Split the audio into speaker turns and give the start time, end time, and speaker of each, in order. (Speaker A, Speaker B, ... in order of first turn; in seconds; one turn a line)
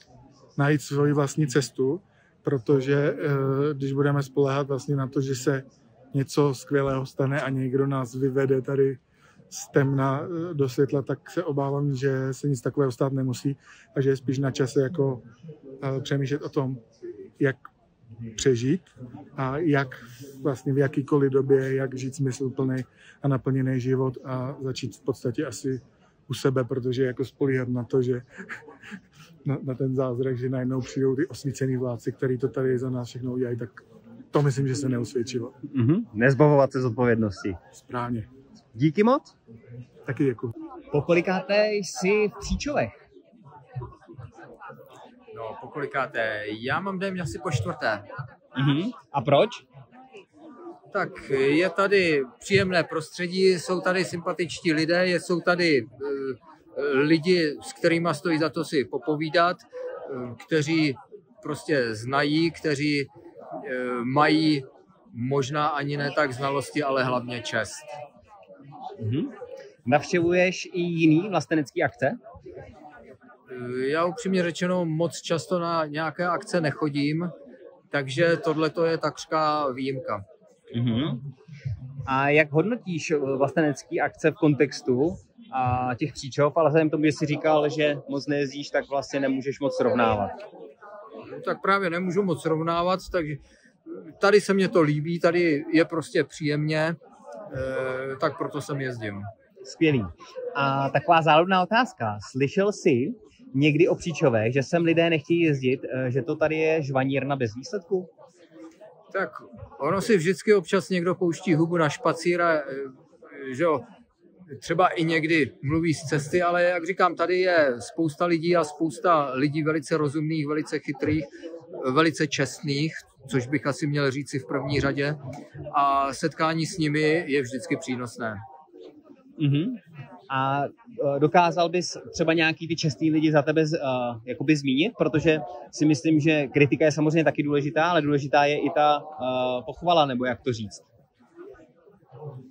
Speaker A: 0.6-9.0
Speaker A: 9.5-15.2
Speaker A: 15.8-16.8
Speaker A: 18.4-28.6
Speaker A: 29.4-35.5
Speaker B: 35.7-37.6
Speaker A: 37.7-38.3
Speaker B: 38.7-39.3
Speaker A: 40.1-40.5
Speaker B: 40.9-43.0
Speaker C: 45.3-48.1
Speaker B: 48.6-49.6
Speaker C: 50.9-67.9
Speaker B: 69.0-69.3
Speaker B: 69.8-72.2
Speaker C: 73.5-77.3
Speaker C: 77.9-80.2
Speaker B: 80.7-81.2
Speaker B: 82.1-90.4
Speaker C: 91.4-97.0
Speaker C: 97.5-99.3
Speaker B: 99.7-108.1
Speaker C: 109.1-113.8
Speaker C: 114.5-121.3
Speaker C: 121.8-125.2
Speaker C: 125.7-128.4
Speaker B: 129.4-140.9